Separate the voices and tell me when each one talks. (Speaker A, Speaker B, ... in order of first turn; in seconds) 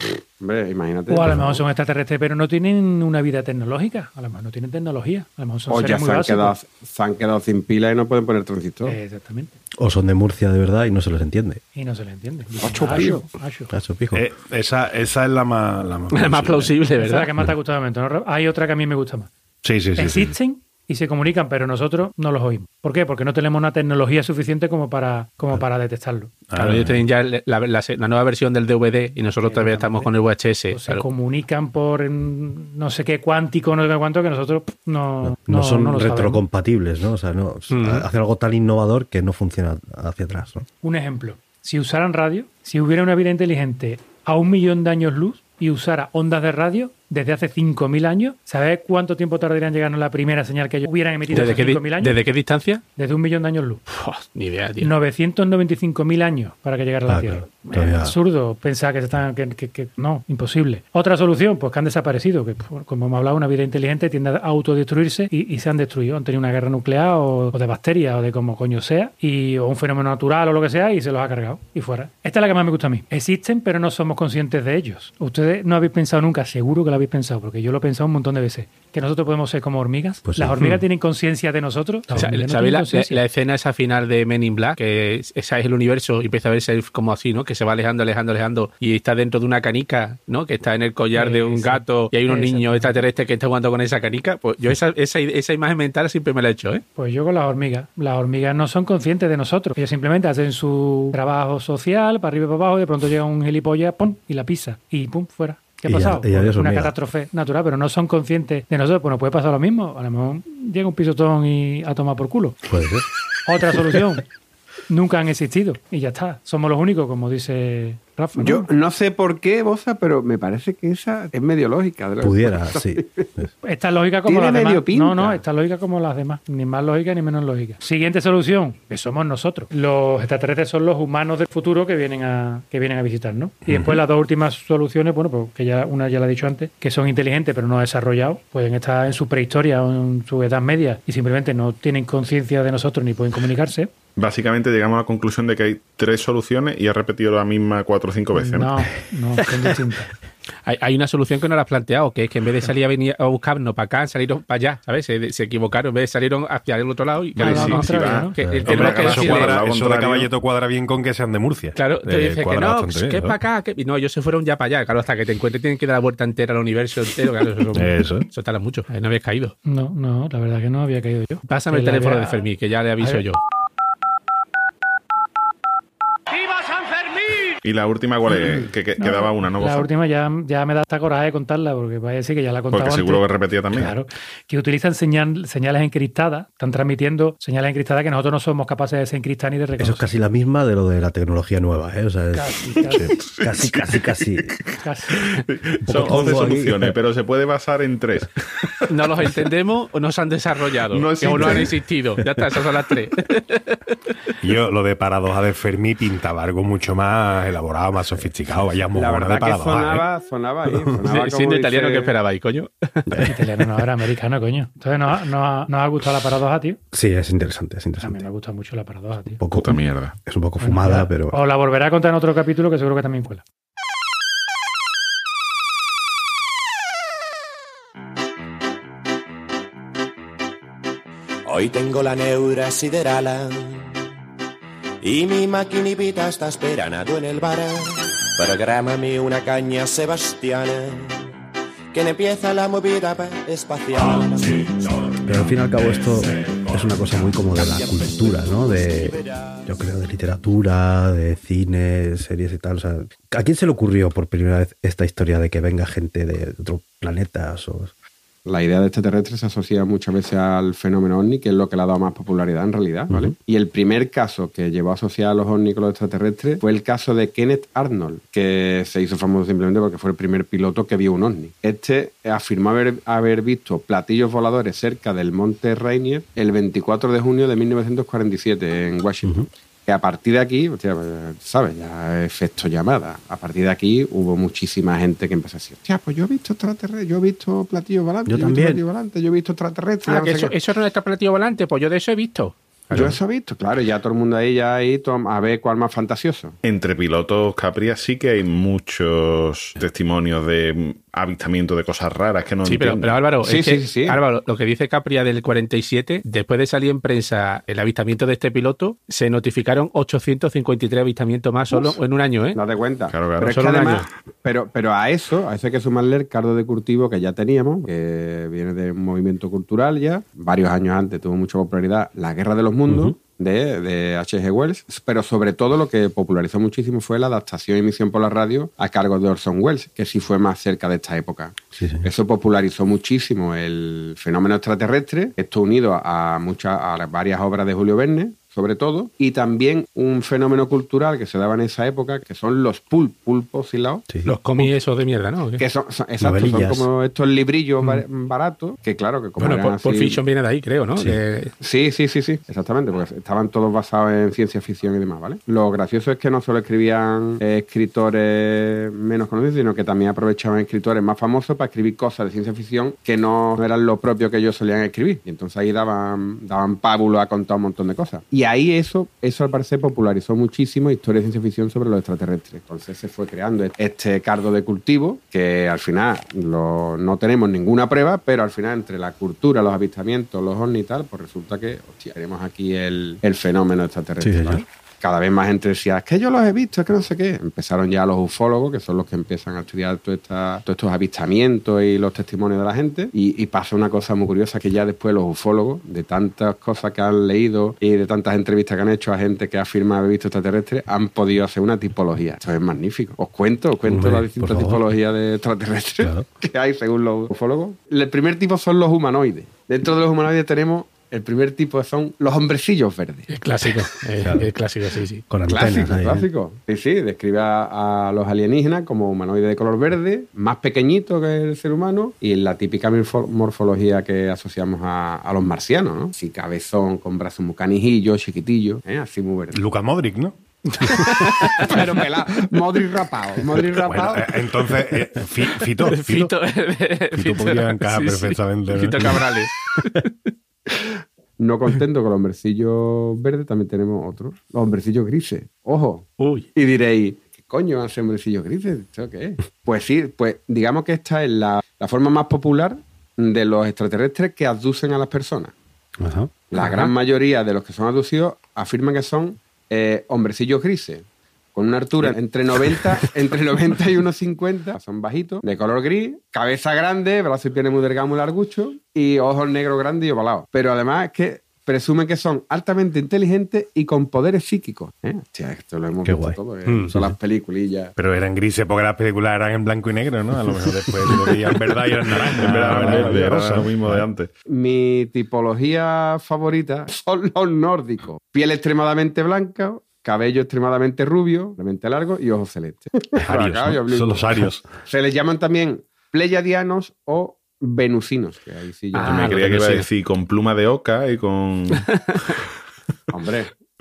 Speaker A: 0.4-1.5, 5.7-9.0, 12.6-13.2, 118.4-123.2, 124.2-125.4, 208.9-212.1, 258.5-290.5, 292.9-296.6, 303.4-304.2, 311.7-312.0, 312.5-344.0, 345.6-350.2, 351.6-413.3, 415.5-429.6, 430.8-434.5, 441.4-455.5, 456.5-477.9, 484.5-499.4, 503.1-503.5
Speaker B: 1.1-6.5, 8.9-9.5, 11.7-13.7, 17.0-19.3, 19.9-26.4, 29.4-36.4, 40.8-52.2, 53.0-53.8, 54.8-83.2, 91.1-93.0, 97.0-112.6, 113.5-114.2, 114.9-118.7, 123.6-143.9, 148.3-150.1, 157.4-158.4, 169.6-172.4, 173.0-173.2, 179.0-190.1, 192.3-193.1, 194.8-195.4, 213.3-216.8, 218.0-219.4, 220.6-223.4
Speaker C: 9.8-11.6, 13.7-14.2, 35.2-40.7, 57.1-58.1, 80.2-80.6, 105.9-107.0, 112.6-113.0, 122.2-123.5, 133.7-134.0, 158.4-158.8, 189.8-194.5, 195.8-197.0, 213.1-213.4, 216.9-218.3, 219.4-221.4, 245.2-257.9, 288.3-288.8, 322.9-323.1, 331.8-332.1, 344.1-344.3, 346.2-346.9, 384.2-384.6, 403.9-404.9, 406.0-406.3, 414.2-414.5, 415.3-416.2, 456.0-456.3, 476.0-477.2
Speaker D: 14.1-16.8, 19.6-20.3, 26.5-27.0, 158.6-163.4, 167.7-168.3, 204.4-210.1, 429.5-431.8, 433.8-436.3, 437.1-439.4, 477.9-483.8, 493.2-494.7
Speaker E: 16.1-17.3, 26.6-31.0, 37.7-38.0, 51.3-52.8, 53.9-54.9, 82.1-96.8, 150.6-159.6, 161.8-169.5, 171.5-173.4, 198.9-203.8, 211.0-213.3, 290.1-293.2, 302.6-312.6, 313.5-314.1, 344.2-345.6, 349.4-351.5, 413.3-415.2, 430.9-432.1, 435.8-440.3, 446.2-446.5, 456.6-456.9, 498.9-499.9, 501.8-502.2
Speaker F: 144.2-148.7, 157.4-160.3, 177.6-179.9, 182.7-183.9, 193.0-198.8, 200.9-201.7, 219.5-220.1, 296.6-303.2, 313.1-313.6, 482.4-484.3, 499.0-501.9
Speaker G: 231.5-233.8, 235.0-241.1, 241.9-244.8